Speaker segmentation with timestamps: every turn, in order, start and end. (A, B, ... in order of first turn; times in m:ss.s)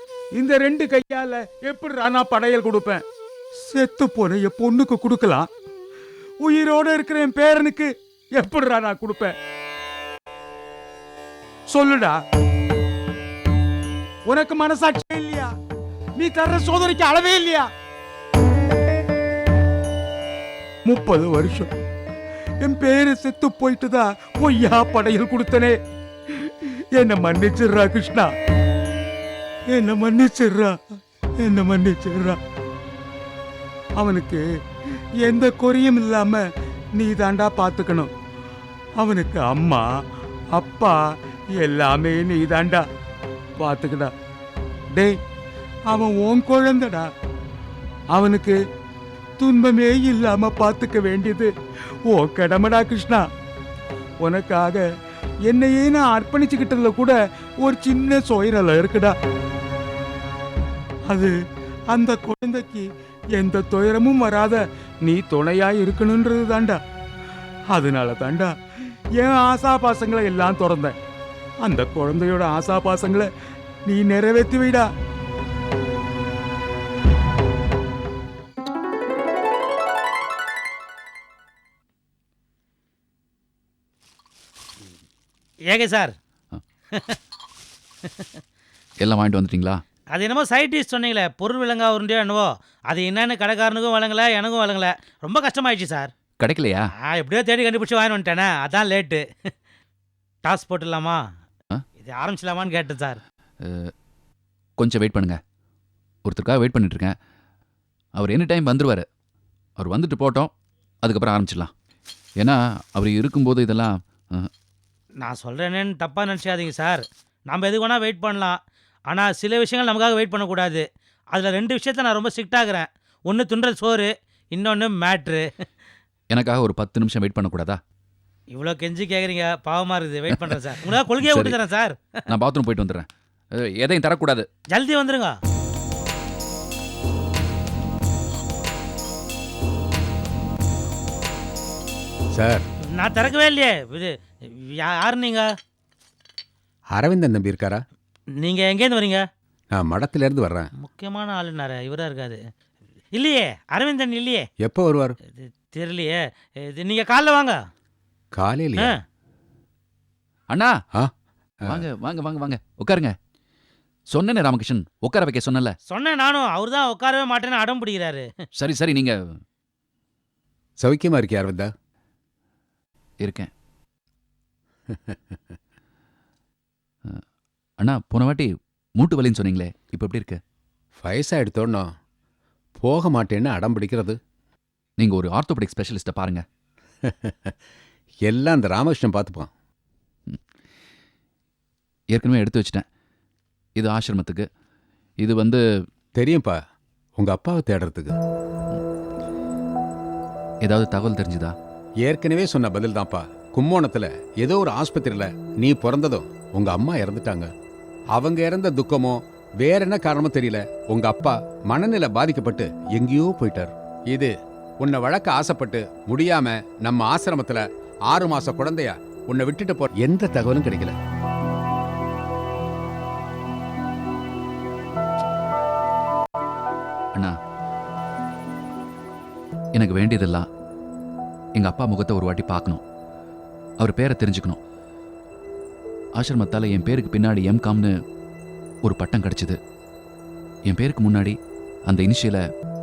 0:00.4-0:03.0 A
0:03.7-0:05.5 A
0:06.4-0:09.3 A
0:11.7-0:12.1 A
0:14.3-0:15.5 A
0:16.2-0:17.7 A
0:20.8-0:21.7 A
0:22.6-0:25.7 A
0:26.4-0:28.3 A
0:29.7-0:30.8 A
0:31.4-0:32.4 A
0:34.0-0:34.4 A
0:35.2-0:36.4 A
0:37.0-0:38.1 A
0:39.0-0:39.8 A
0:40.5-0:41.0 A
0:41.6-0:42.8 A
0:43.6-0:44.1 A
0:45.9-0:47.1 A
0:48.1-0:48.6 A
0:49.4-0:51.5 A
0:52.1-0:53.2 A
0:54.2-0:54.8 A
0:55.5-0:59.1 A
1:01.1-1:01.3 A
1:01.9-1:06.8 A
1:07.7-1:08.5 A
1:09.2-1:10.9 A
1:11.6-1:13.3 A
1:13.9-1:14.8 A
1:25.7-1:26.1 B
1:29.0-1:29.8 C
1:30.1-1:36.1 B
1:36.4-1:36.8 C
1:37.0-1:39.2 B
1:40.4-1:41.2 B
1:42.0-1:43.2 B
1:44.8-1:45.4 C
1:46.2-1:47.1 C
1:48.2-1:49.0 C
1:49.8-1:50.5 C
1:51.0-1:51.7 C
1:52.4-1:54.5 C
1:55.2-1:58.6 B
1:59.1-2:05.4 B
2:06.3-2:07.8 C
2:08.5-2:12.0 B
2:11.2-2:11.6 C
2:12.3-2:13.1 C
2:13.6-2:14.5 C
2:14.7-2:15.3 B
2:22.3-2:22.6 D
2:22.9-2:24.1 B
2:24.7-2:25.4 B
2:26.9-2:27.8 D
2:28.4-2:29.2 B
2:29.7-2:30.7 D
2:30.8-2:32.4 B
2:33.1-2:34.4 B
2:34.6-2:35.2 D
2:35.3-2:37.6 B
2:38.4-2:38.9 D
2:41.6-2:43.1 C
2:44.1-2:45.7 C
2:45.9-2:48.2 B
2:48.6-2:49.2 C
2:50.8-2:51.7 D
2:53.2-2:53.5 C
2:57.8-3:00.4 C
3:01.0-3:01.9 D
3:02.8-3:04.2 D
3:05.0-3:06.4 C
3:07.1-3:07.5 D
3:08.2-3:09.5 D
3:12.1-3:12.8 C
3:13.8-3:14.4 C
3:15.2-3:15.6 C
3:16.2-3:16.6 D
3:17.2-3:18.2 D
3:20.6-3:21.5 C
3:22.0-3:27.5 D
3:28.1-3:40.9 D
3:49.7-3:50.4 C
3:51.6-3:52.8 C
3:53.8-3:54.6 C
3:56.2-3:57.9 C
3:58.8-3:59.6 C
4:00.7-4:01.4 C
4:01.9-4:02.4 C